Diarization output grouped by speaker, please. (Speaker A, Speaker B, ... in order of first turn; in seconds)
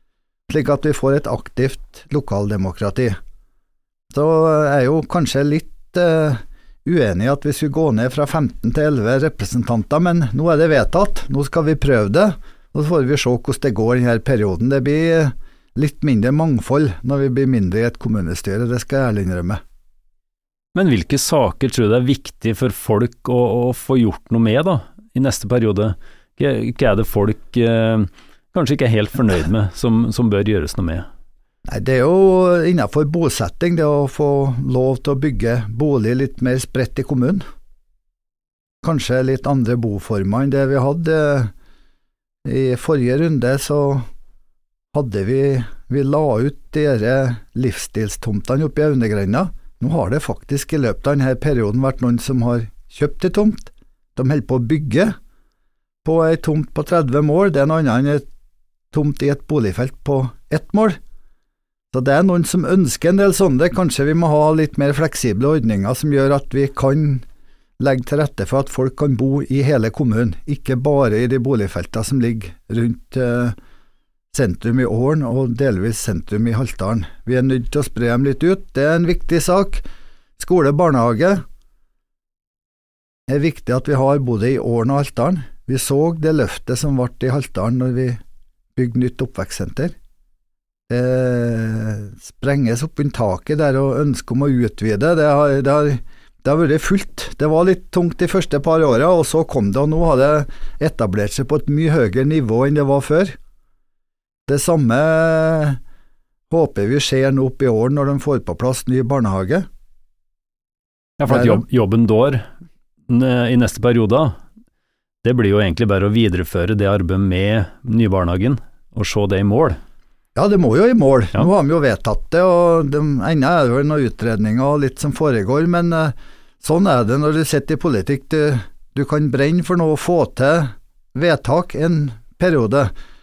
Speaker A: 0.5-3.2, 4.1-19.6, 31.7-37.4, 38.8-41.5, 42.5-44.1, 44.9-55.1, 56.0-58.3, 58.9-61.0, 61.9-67.2, 67.8-73.6, 74.3-79.8, 80.4-81.4, 83.3-88.2, 88.8-90.0, 90.9-103.4, 104.5-105.8, 106.5-109.7, 111.3-111.6, 120.4-132.9
Speaker B: 20.8-31.1, 111.2-112.5, 113.1-114.4, 115.2-119.8